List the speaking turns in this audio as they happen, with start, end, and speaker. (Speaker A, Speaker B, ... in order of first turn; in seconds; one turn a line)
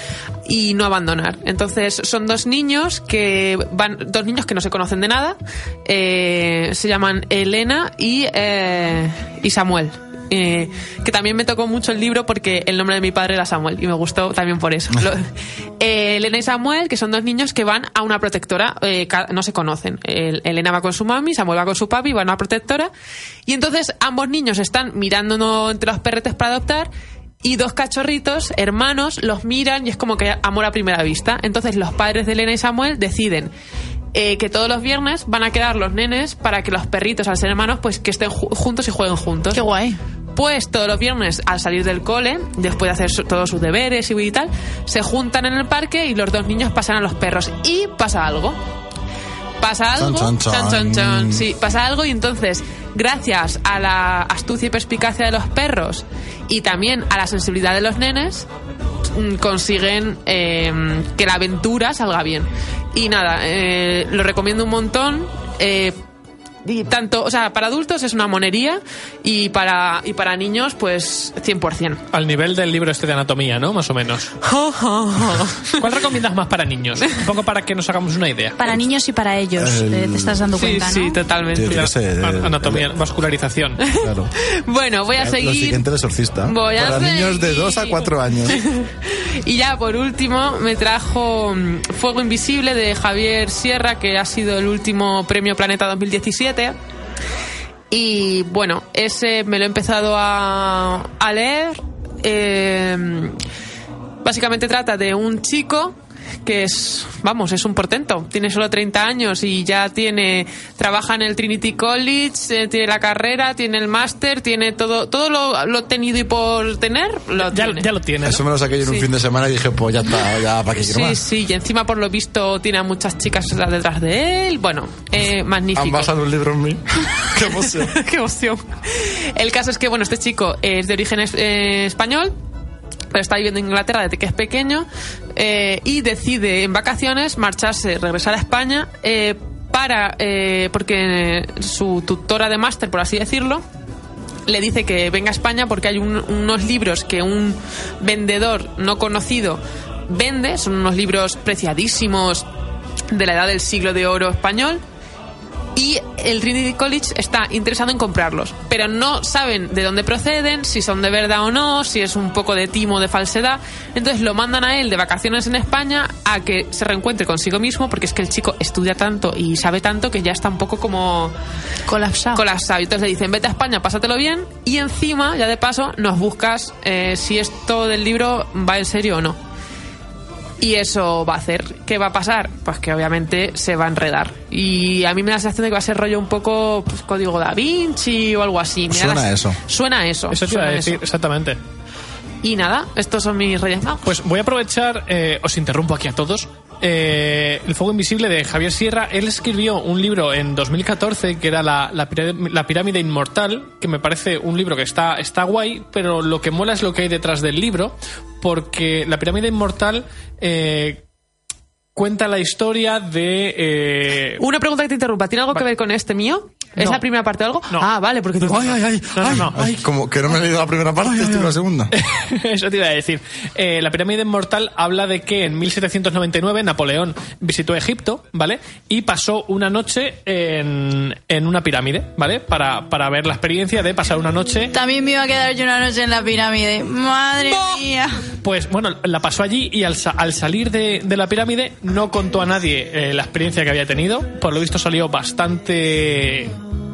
Speaker A: 0.5-15.3
Speaker A: 15.8-22.9
Speaker A: 23.4-26.9
Speaker A: 27.4-33.5
Speaker A: 34.1-39.7
Speaker B: 39.5-40.0
Speaker A: 40.3-48.6
Speaker A: 49.6-58.5
Speaker C: 50.0-51.5
Speaker A: 59.1-66.0
Speaker A: 66.6-72.0
Speaker D: 72.1-74.3
Speaker A: 74.4-75.9
Speaker D: 75.7-78.6
Speaker B: 78.6-81.2
Speaker C: 79.5-80.5
Speaker A: 80.5-81.9
Speaker C: 81.5-82.9
Speaker D: 81.7-83.8
Speaker A: 83.8-85.8
Speaker C: 84.0-84.3
Speaker C: 85.2-88.6
Speaker A: 86.4-96.8
Speaker A: 97.9-103.4
Speaker A: 104.2-117.9
Speaker D: 117.4-118.4
Speaker C: 118.2-121.2
Speaker A: 120.8-126.1
Speaker C: 125.7-127.9
Speaker A: 127.6-132.3
Speaker A: 133.1-143.6
Speaker A: 144.5-152.4
Speaker A: 153.1-154.8
Speaker A: 155.8-171.3
Speaker B: 171.9-172.4
Speaker A: 172.3-179.4
Speaker A: 180.6-191.0
Speaker C: 188.9-189.6
Speaker D: 190.3-191.6
Speaker A: 192.4-194.2
Speaker D: 194.0-211.0
Speaker D: 211.9-214.4
Speaker A: 214.4-218.8
Speaker C: 218.4-221.9
Speaker D: 218.5-219.8
Speaker D: 221.9-234.7
Speaker B: 234.7-238.2
Speaker D: 237.5-237.8
Speaker D: 238.4-246.5